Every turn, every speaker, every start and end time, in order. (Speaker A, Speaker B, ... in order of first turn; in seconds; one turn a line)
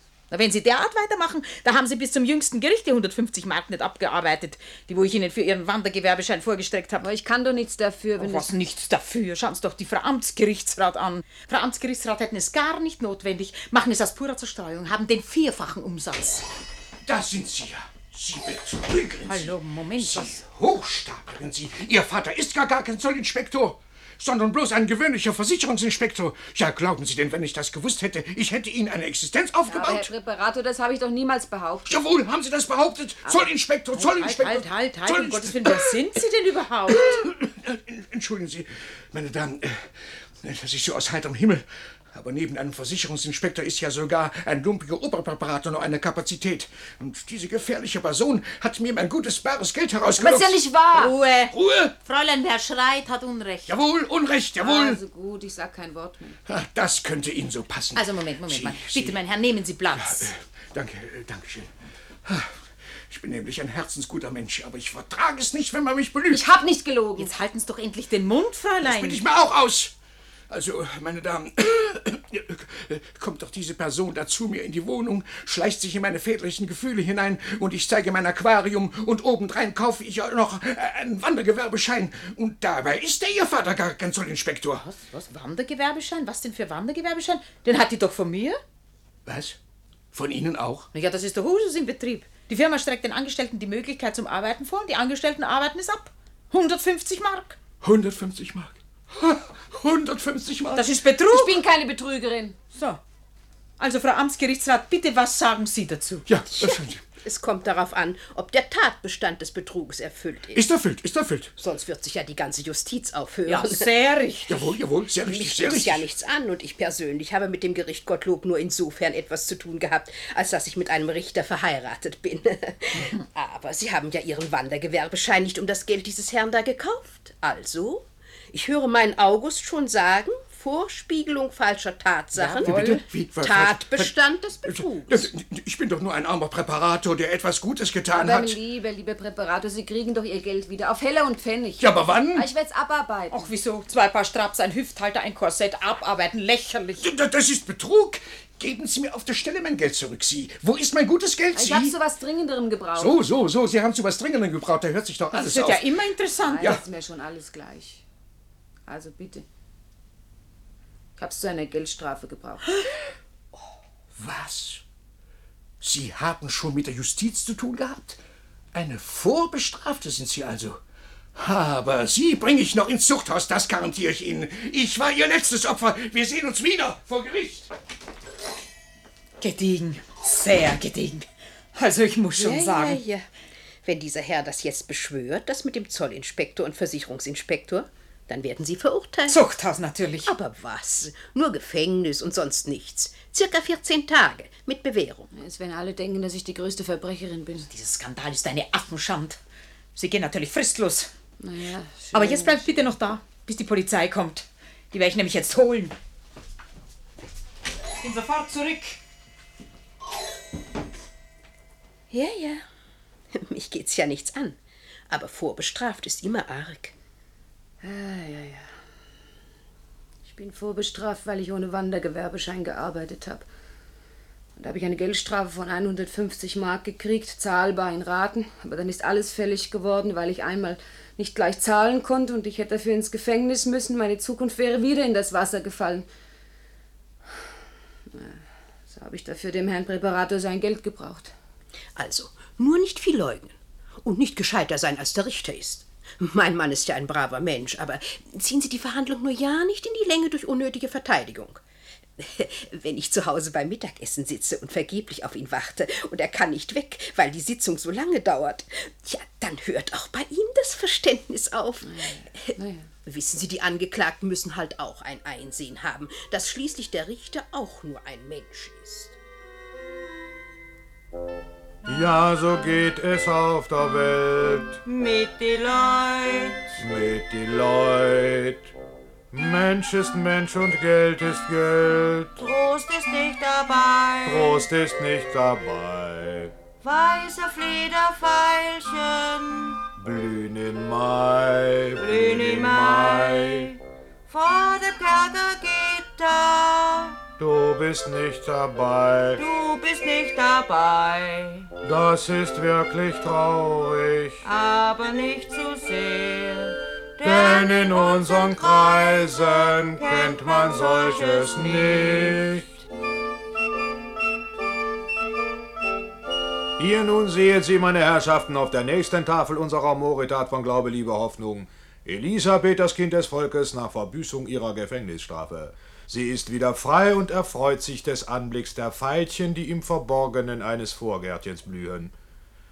Speaker A: 0.3-7.0
Speaker B: 7.0-8.5
Speaker A: 8.2-16.4
Speaker C: 17.0-30.1
Speaker A: 19.2-20.4
Speaker B: 29.7-32.0
Speaker C: 31.9-36.0
Speaker A: 34.0-37.3
Speaker C: 36.9-50.6
Speaker B: 50.2-51.1
Speaker A: 50.9-53.8
Speaker C: 51.5-51.9
Speaker C: 53.7-55.0
Speaker B: 54.6-56.4
Speaker C: 56.5-59.2
Speaker A: 57.9-60.3
Speaker C: 59.9-61.7
Speaker C: 62.2-66.5
Speaker B: 66.3-67.3
Speaker A: 67.2-69.2
Speaker C: 68.8-69.9
Speaker C: 70.5-84.8
Speaker A: 84.8-88.6
Speaker C: 89.2-89.6
Speaker C: 90.1-90.9
Speaker A: 90.9-97.6
Speaker C: 97.8-100.9
Speaker A: 100.7-101.6
Speaker B: 101.3-102.5
Speaker A: 102.7-103.0
Speaker A: 103.8-106.2
Speaker C: 106.3-107.0
Speaker D: 106.6-110.7
Speaker C: 110.5-111.5
Speaker D: 111.6-113.9
Speaker A: 113.5-114.6
Speaker C: 114.5-116.1
Speaker D: 115.2-135.3
Speaker A: 132.4-132.9
Speaker C: 132.6-138.6
Speaker B: 138.1-143.5
Speaker C: 141.8-142.5
Speaker A: 143.3-147.0
Speaker C: 147.0-151.9
Speaker B: 151.5-153.2
Speaker C: 152.9-155.9
Speaker A: 155.3-156.7
Speaker B: 156.4-158.0
Speaker B: 158.9-159.4
Speaker B: 161.2-162.7
Speaker C: 164.1-164.8
Speaker C: 165.8-168.2
Speaker C: 168.7-170.8
Speaker C: 171.3-177.7
Speaker A: 179.4-183.0
Speaker D: 182.3-183.2
Speaker D: 183.8-189.4
Speaker A: 189.3-190.3
Speaker D: 190.2-195.3
Speaker B: 195.3-197.7
Speaker A: 197.7-199.4
Speaker A: 199.9-201.1
Speaker B: 201.4-202.9
Speaker A: 202.1-205.9
Speaker A: 208.0-209.0
Speaker D: 212.1-212.6
Speaker D: 213.3-214.6
Speaker D: 215.1-216.9
Speaker B: 217.8-218.7
Speaker B: 220.2-223.4
Speaker B: 224.6-236.1
Speaker B: 238.1-241.3
Speaker D: 241.9-251.6
Speaker D: 252.2-262.5
Speaker B: 261.8-262.9
Speaker D: 263.1-269.2
Speaker E: 271.9-274.8
Speaker F: 274.8-276.8
Speaker E: 276.8-278.7
Speaker E: 279.3-282.3
Speaker F: 282.4-284.7
Speaker E: 284.2-286.5
Speaker F: 286.8-289.8
Speaker E: 290.0-293.7
Speaker F: 292.0-293.8
Speaker F: 294.3-297.2
Speaker E: 297.4-299.4
Speaker F: 299.4-301.7
Speaker E: 301.8-304.4
Speaker F: 304.4-312.6
Speaker E: 307.2-312.6
Speaker E: 316.8-332.1